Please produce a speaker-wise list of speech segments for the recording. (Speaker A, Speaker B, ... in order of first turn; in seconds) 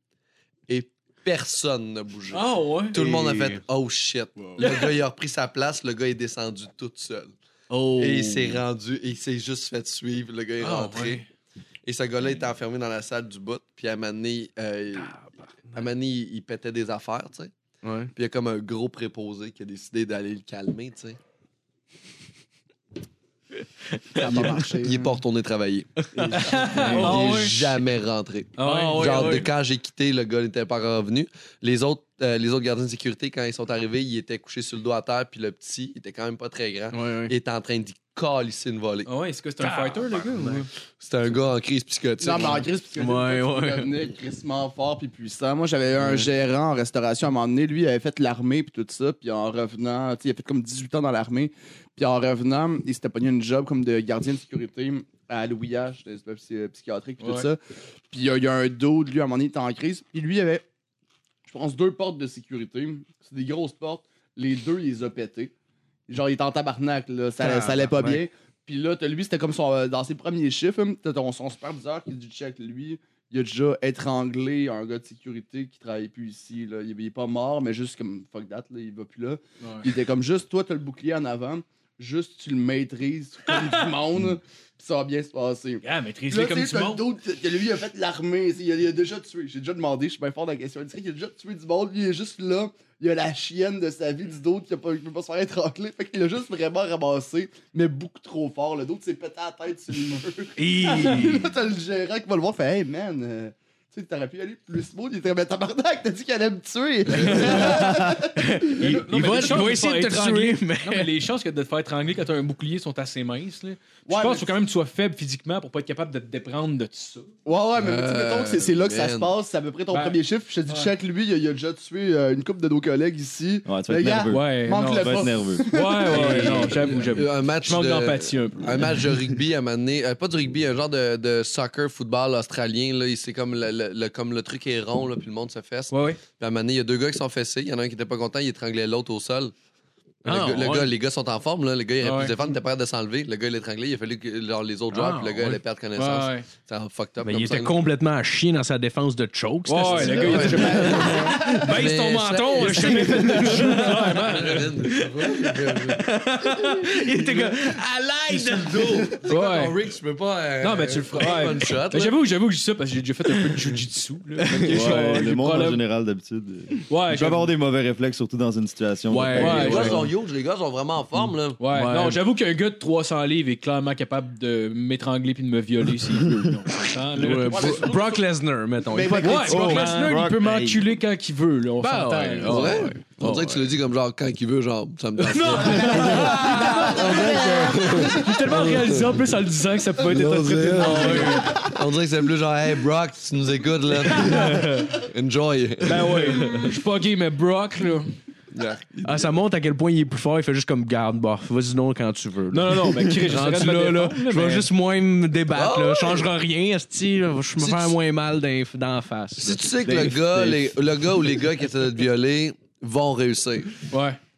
Speaker A: 0.7-7.3, 8.0-11.2, 11.8-15.1, 15.7-17.5, 18.1-21.2, 24.2-39.1, 41.0-42.7, 107.1-107.5, 117.8-119.3, 127.1-139.5, 140.2-147.7, 149.9-162.2, 169.3-171.6, 182.4-189.2, 190.1-196.6, 198.5-199.3, 205.5-206.3, 207.6-207.9, 209.4-213.9
Speaker B: 2.3-3.0, 4.6-4.9, 10.6-11.3, 26.4-27.8, 28.6-29.5, 39.0-40.7, 57.2-57.5, 79.6-79.9, 85.8-87.1, 107.3-107.9, 108.7-117.3, 119.9-120.9, 124.3-129.0, 135.9-136.2, 142.0-142.3, 146.0-146.5, 149.7-154.7, 159.2-159.7, 160.6-165.8, 166.9-167.5, 169.3-170.1, 171.6-177.9, 179.1-182.9, 185.3-191.6, 194.3-194.7, 195.9-198.1, 202.5-204.7, 213.9-214.2
Speaker C: 3.0-3.6, 7.7-8.6, 15.0-15.3, 17.8-18.1, 24.1-24.4, 26.3-27.2, 28.6-29.5, 36.9-37.3, 39.6-40.6, 43.0-43.9, 67.4-68.2, 100.6-101.5, 107.2-111.1, 126.1-127.0, 140.2-140.9, 144.9-145.6, 147.2-159.2, 164.4-164.9, 169.1-170.1, 171.7-172.2, 177.1-180.0, 181.8-183.6, 185.3-188.1, 190.8-191.5, 194.1-194.9, 196.0-196.8, 199.0-209.6
Speaker D: 24.2-25.2, 26.2-27.1, 42.2-57.6, 58.1-60.6, 61.5-65.5, 66.1-109.7, 114.0-114.5, 117.5-127.1, 150.2-151.1, 177.5-178.2, 178.9-179.7, 186.4-188.0
Speaker E: 123.7-125.8, 164.5-170.1, 179.4-180.9, 209.8-210.8